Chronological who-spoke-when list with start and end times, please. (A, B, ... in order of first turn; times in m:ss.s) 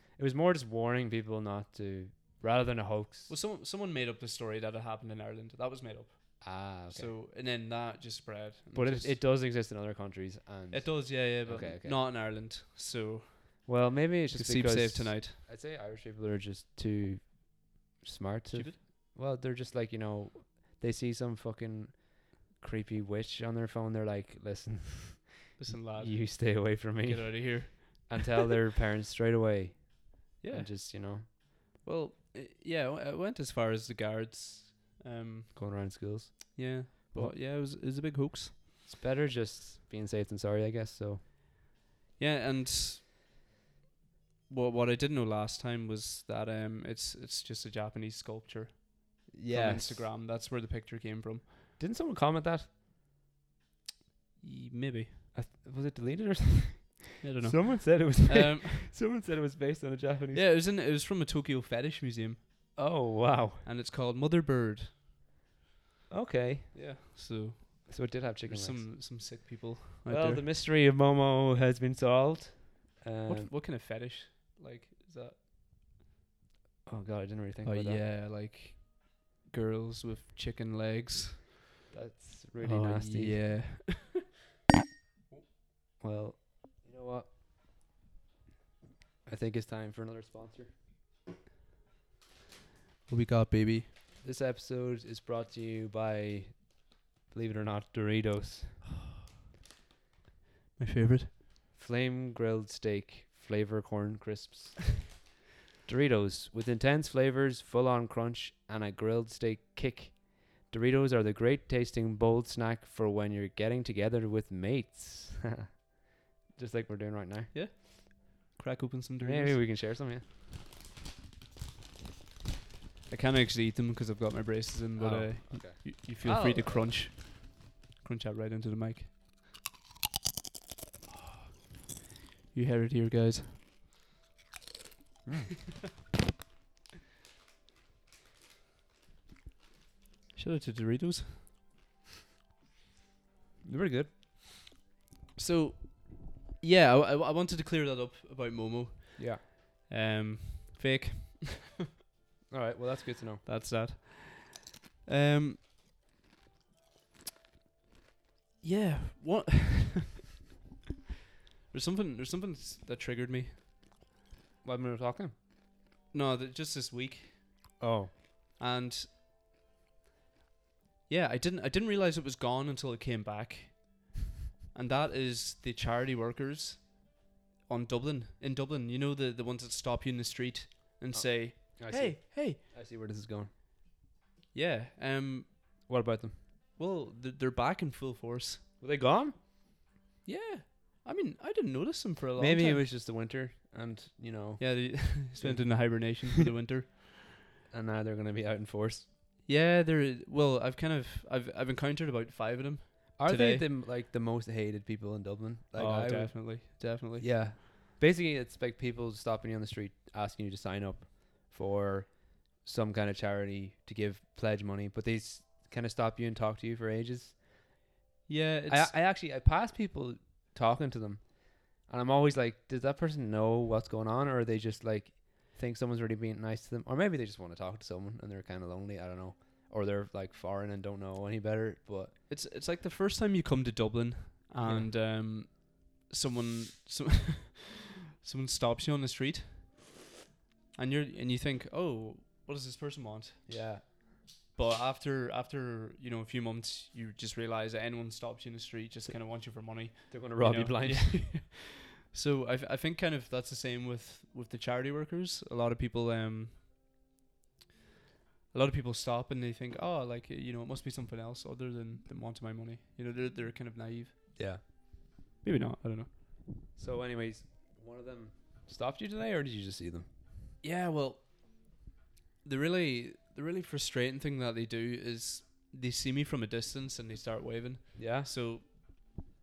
0:00.2-0:03.3 A
0:03.3-0:09.2 B
0:06.4-0:07.1 A
0:08.7-0:12.0 A
0:10.7-0:13.7 B
0:13.7-0:31.3 A
0:14.3-0:15.4 B
0:18.5-0:18.8 B
0:25.6-0:28.3 B
0:30.4-0:36.0 B
0:35.5-0:37.4 A
0:36.5-0:38.6 B
0:38.9-0:41.2 A
0:42.2-0:43.1 B
0:44.5-0:51.5 B
0:49.3-0:50.1 A
0:51.8-0:52.7 A
0:54.4-0:55.2 B
0:55.3-1:00.4 A
0:57.2-0:58.9 B
1:00.3-1:02.4 B
1:02.8-1:03.7 A
1:03.6-1:05.0 B
1:06.1-1:06.8 A
1:06.7-1:10.4 B
1:07.9-1:09.0 A
1:10.1-1:13.5 A
1:13.3-1:15.4 B
1:16.9-1:18.0 A
1:17.6-1:21.6 B
1:21.9-1:23.6 A
1:22.6-1:24.2 B
1:26.0-1:27.3 A
1:29.3-1:30.8 A
1:33.1-1:33.9 B
1:34.2-1:38.8 A
1:40.8-1:41.4 B
1:41.7-1:45.2 A
1:45.8-1:55.9 A
1:56.5-1:57.5 A
1:57.5-1:59.6 B
1:59.2-2:00.2 A
2:03.1-2:09.2 B
2:05.0-2:07.0 A
2:12.5-2:13.6 B
2:15.3-2:15.6 A
2:20.4-2:21.5 B
2:23.6-2:24.1 A
2:25.4-2:31.7 B
2:29.2-2:29.4 A
2:32.5-2:33.4 A
2:33.4-2:35.6 B
2:38.6-2:40.2 B
2:41.7-2:43.6 B
2:44.6-2:45.3 A
2:46.1-2:47.8 B
2:47.8-2:48.1 A
2:48.6-2:49.1 B
2:51.1-2:54.1 B
2:54.7-2:57.1 B
2:57.7-3:02.6 B
3:01.1-3:03.5 A
3:04.5-3:05.8 B
3:05.9-3:06.4 A
3:06.8-3:08.6 B
3:08.8-3:09.4 A
3:10.2-3:12.8 B
3:12.4-3:16.4 A
3:14.6-3:17.0 B
3:17.7-3:19.1 A
3:19.4-3:23.6 B
3:23.2-3:37.4 A
3:25.8-3:27.3 B
3:38.3-3:38.9 B
3:38.7-3:52.2 A
3:52.3-3:59.8 B
3:54.6-3:54.9 A
4:00.8-4:03.5 B
4:03.5-4:03.9 A
4:04.5-4:16.6 B
4:10.1-4:11.3 A
4:18.5-4:24.3 B
4:24.4-4:24.6 A
4:25.4-4:26.1 B
4:26.8-4:30.1 A
4:30.6-4:31.6 B
4:32.4-4:38.9 B
4:38.0-4:38.3 A